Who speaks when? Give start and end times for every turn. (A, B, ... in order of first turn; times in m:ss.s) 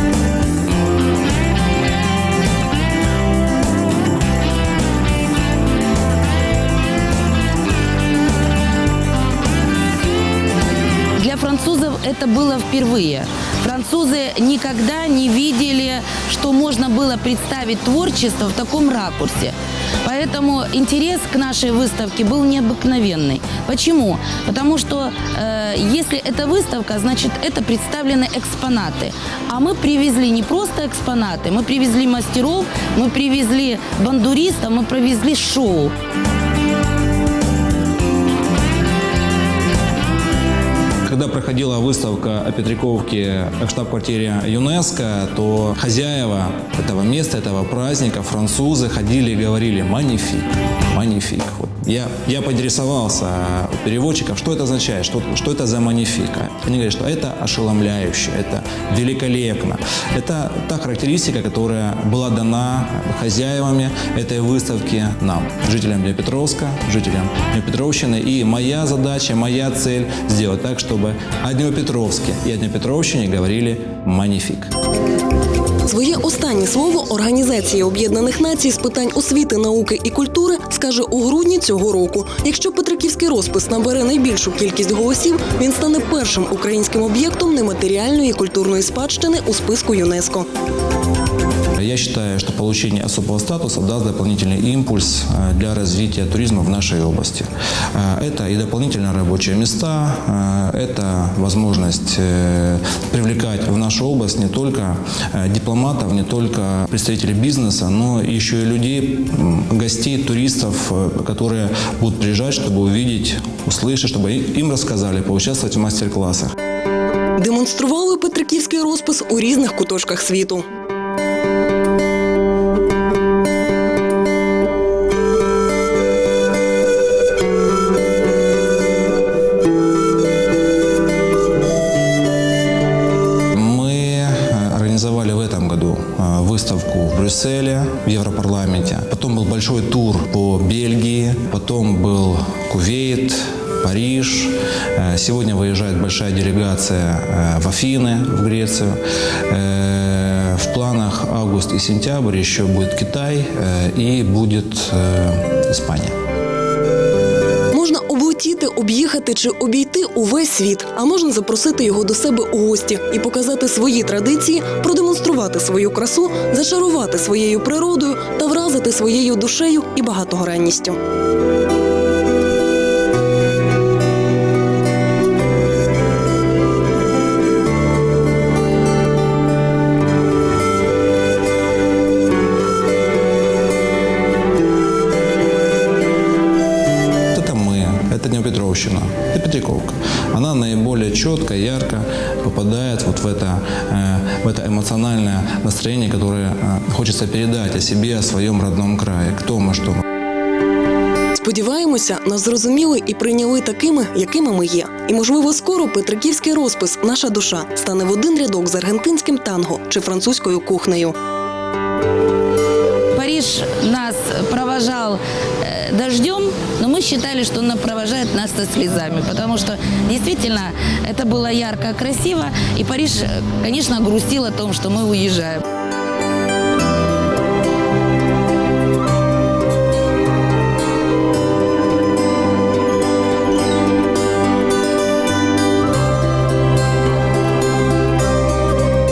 0:11.2-0:35.9 A
0:41.0-1:14.7 B
1:15.9-1:30.5 C
1:31.8-1:56.5 B
1:57.4-2:00.6 C
2:13.5-2:36.1 B
2:37.7-2:51.0 C
3:07.3-3:20.0 B
3:21.4-3:31.2 C
3:33.1-3:45.6 A